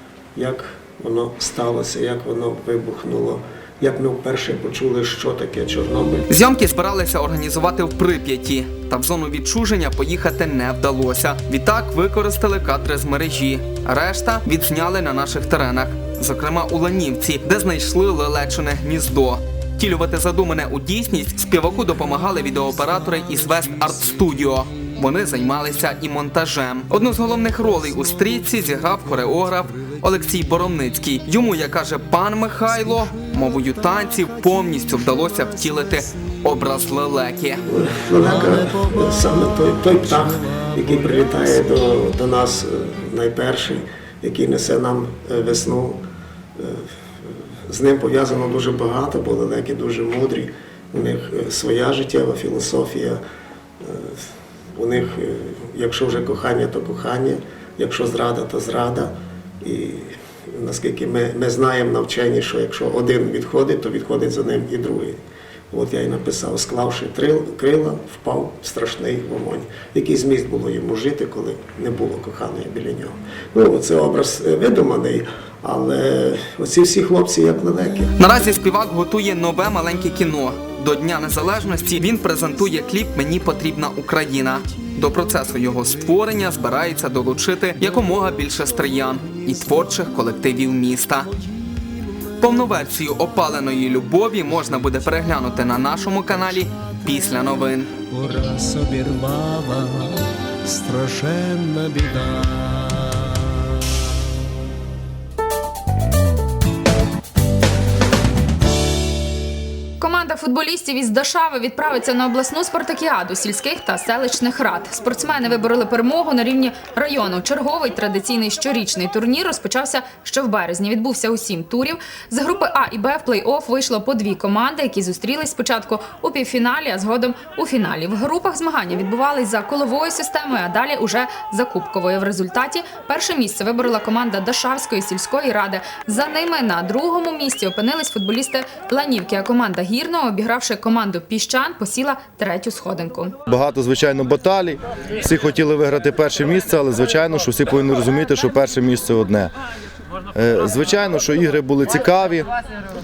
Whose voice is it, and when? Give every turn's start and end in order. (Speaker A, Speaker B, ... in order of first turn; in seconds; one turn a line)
Speaker A: 0.3-6.3
Speaker B: 6.3-37.6
Speaker C: 23.2-24.2
Speaker C: 27.2-30.0
Speaker C: 32.8-36.4
Speaker A: 37.6-46.0
Speaker C: 38.2-41.7
Speaker A: 46.6-53.2
Speaker A: 53.8-65.2
Speaker A: 65.7-78.1
Speaker B: 78.2-91.3
Speaker C: 84.7-90.4
Speaker C: 91.2-92.7
Speaker B: 92.4-97.9
Speaker C: 96.2-103.7
Speaker D: 110.0-143.3
Speaker E: 143.5-149.5
Speaker E: 150.3-152.5